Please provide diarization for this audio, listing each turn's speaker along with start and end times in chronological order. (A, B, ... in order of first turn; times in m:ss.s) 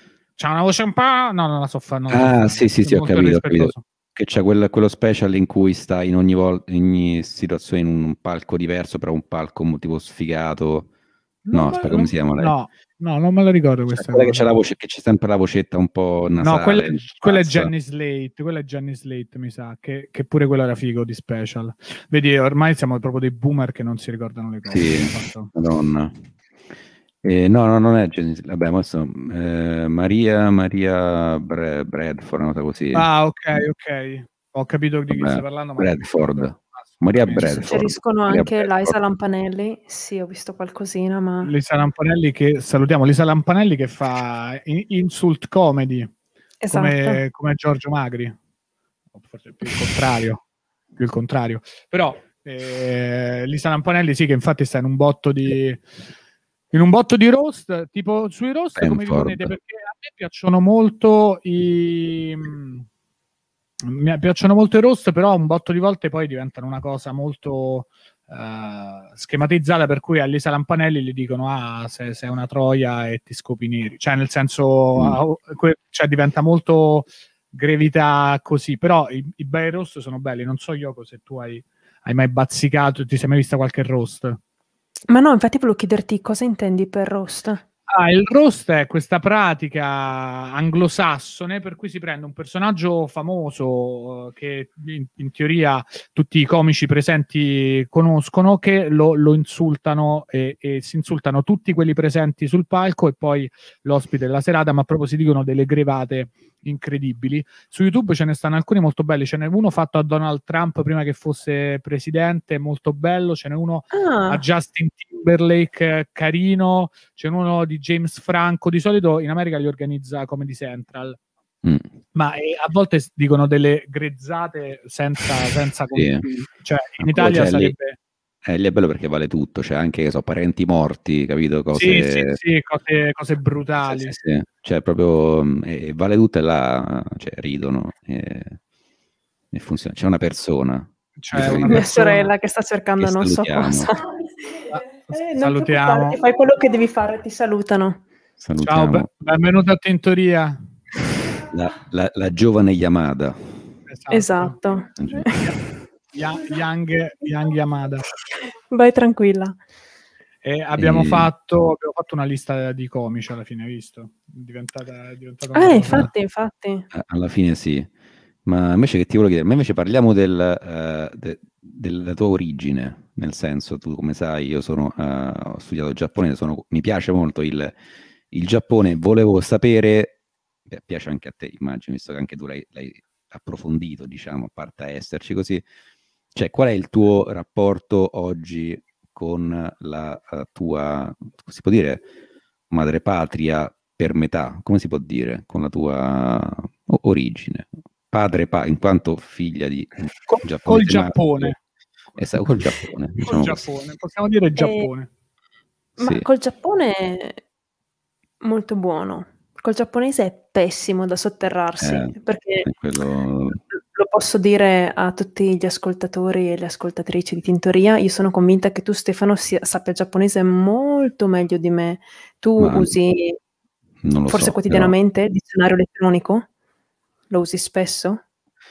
0:00.4-0:03.8 A
0:02.1-0:10.9 B
0:11.4-0:14.5 A
0:11.5-0:12.6 B
0:13.9-0:17.7 B
0:16.4-0:25.5 A
0:24.7-0:26.2 B
0:27.2-0:33.1 B
0:32.9-0:37.8 A
0:35.1-0:39.0 B
0:37.4-0:41.5 C
0:41.4-0:46.1 A
0:46.6-0:47.2 C
0:46.7-0:48.4 A
0:49.2-0:50.4 A
0:51.0-0:55.8 A
0:56.7-1:02.9 A
0:58.8-0:59.5 B
1:03.8-1:24.4 A
1:25.1-1:27.6 C
1:27.9-2:01.2 A
1:53.9-1:54.4 C
2:02.1-2:08.0 A
2:05.9-2:06.2 B
2:07.0-2:07.7 B
2:08.4-2:12.4 B
2:11.7-2:14.1 A
2:13.9-2:18.6 B
2:19.5-2:21.9 B
2:21.2-2:22.3 A
2:21.6-2:28.0 C
2:23.0-2:23.9 B
2:24.7-2:26.2 A
2:28.4-2:29.1 B
2:28.6-2:30.7 A
2:31.5-2:33.6 B
2:33.9-2:34.6 A
2:34.1-2:35.5 C
2:35.0-2:35.3 B
2:35.3-2:35.6 A
2:36.1-2:38.0 A
2:38.6-2:39.6 C
2:40.4-2:46.1 A
2:40.8-2:41.3 B
2:45.5-2:46.9 C
2:46.9-2:47.9 B
2:48.4-2:57.8 B
2:58.3-3:05.6 B
3:06.4-3:12.0 B
3:12.7-3:21.5 B
3:20.3-3:21.6 A
3:22.2-3:23.6 B
3:23.2-3:25.1 A
3:24.6-3:24.9 C
3:26.0-3:27.4 C
3:26.0-3:26.2 B
3:28.4-3:32.7 C
3:31.8-3:32.1 B
3:32.6-3:33.6 B
3:33.8-3:43.4 C
3:42.6-3:42.9 B
3:44.0-3:44.9 B
3:44.3-3:46.4 C
3:47.3-3:48.2 C